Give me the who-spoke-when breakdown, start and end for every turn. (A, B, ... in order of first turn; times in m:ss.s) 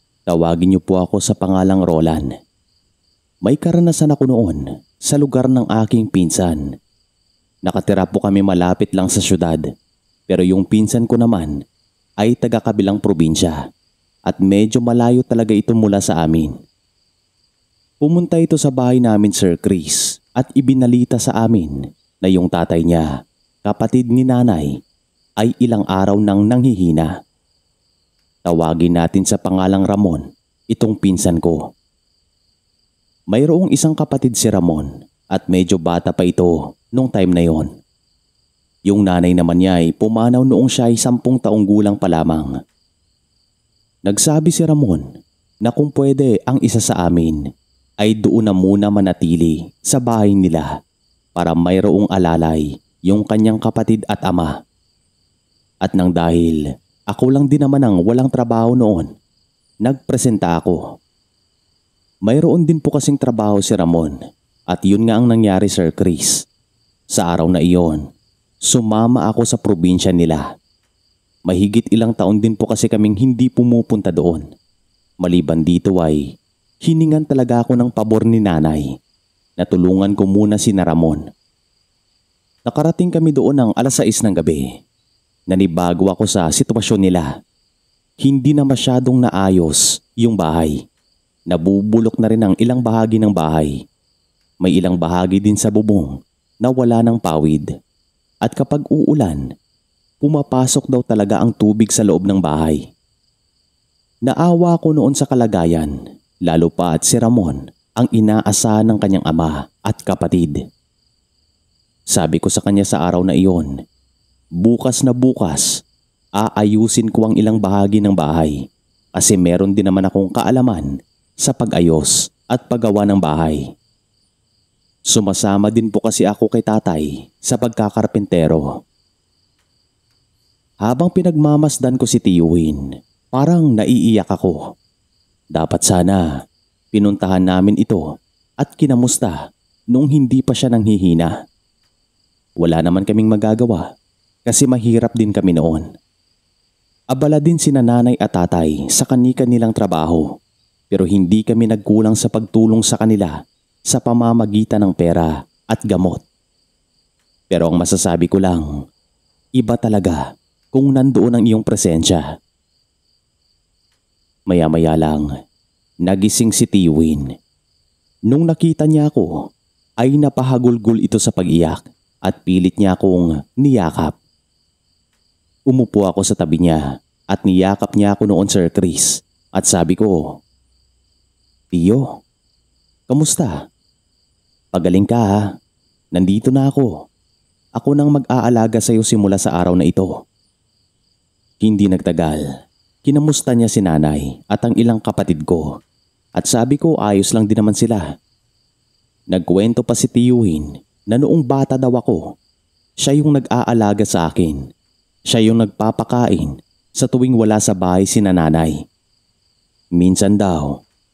0:00.3-0:02.3 A
0:03.4-0:06.7 A
0:07.7-0:09.7 A
0:10.3-0:11.6 A
0:12.2-0:13.6 A
0:14.3-0:16.6 A
0:18.0-0:23.1 A
0:23.6-0:24.8 A
0:25.4-0:27.1 A
0:28.4-0:31.6 A
0:33.3-0:37.7 A
0:38.9-0:42.6 A
0:44.1-0:45.1 A
0:45.6-0:47.5 A
0:48.0-0:50.7 A
0:51.4-0:54.6 A
0:55.8-0:59.1 A
0:59.8-1:00.8 A
1:02.3-1:04.2 A
1:04.7-1:06.5 A
1:07.1-1:08.0 A
1:08.7-1:10.4 A
1:11.5-1:14.4 A
1:15.2-1:16.3 A
1:16.8-1:18.9 A
1:19.6-1:21.2 A
1:22.7-1:24.7 A
1:25.5-1:27.3 A
1:28.2-1:30.8 A
1:31.5-1:33.8 A
1:34.6-1:37.7 A
1:38.4-1:39.5 A
1:40.2-1:42.9 A
1:44.3-1:50.6 A
1:52.1-1:53.7 A
1:54.6-1:55.8 A
1:56.4-1:58.6 A
1:59.2-2:03.6 A
2:05.1-2:08.8 A
2:10.8-2:14.6 A
2:15.6-2:16.3 A
2:16.9-2:18.1 A
2:18.6-2:19.4 A
2:19.9-2:21.4 A
2:22.6-2:23.9 A
2:24.5-2:25.9 A
2:27.1-2:30.3 A
2:30.9-2:36.2 A
2:37.5-2:38.8 A
2:39.6-2:42.3 A
2:44.5-2:45.3 A
2:46.0-2:47.3 A
2:48.3-2:49.4 A
2:50.0-2:54.2 A
2:55.7-3:00.3 A
3:01.7-3:02.2 A
3:03.1-3:03.6 A
3:04.7-3:05.5 A
3:06.2-3:06.9 A
3:07.8-3:10.1 A
3:11.6-3:12.4 A
3:13.0-3:15.8 A
3:16.4-3:18.1 A
3:19.3-3:22.3 A
3:23.0-3:24.6 A
3:25.3-3:28.8 A
3:30.0-3:30.8 A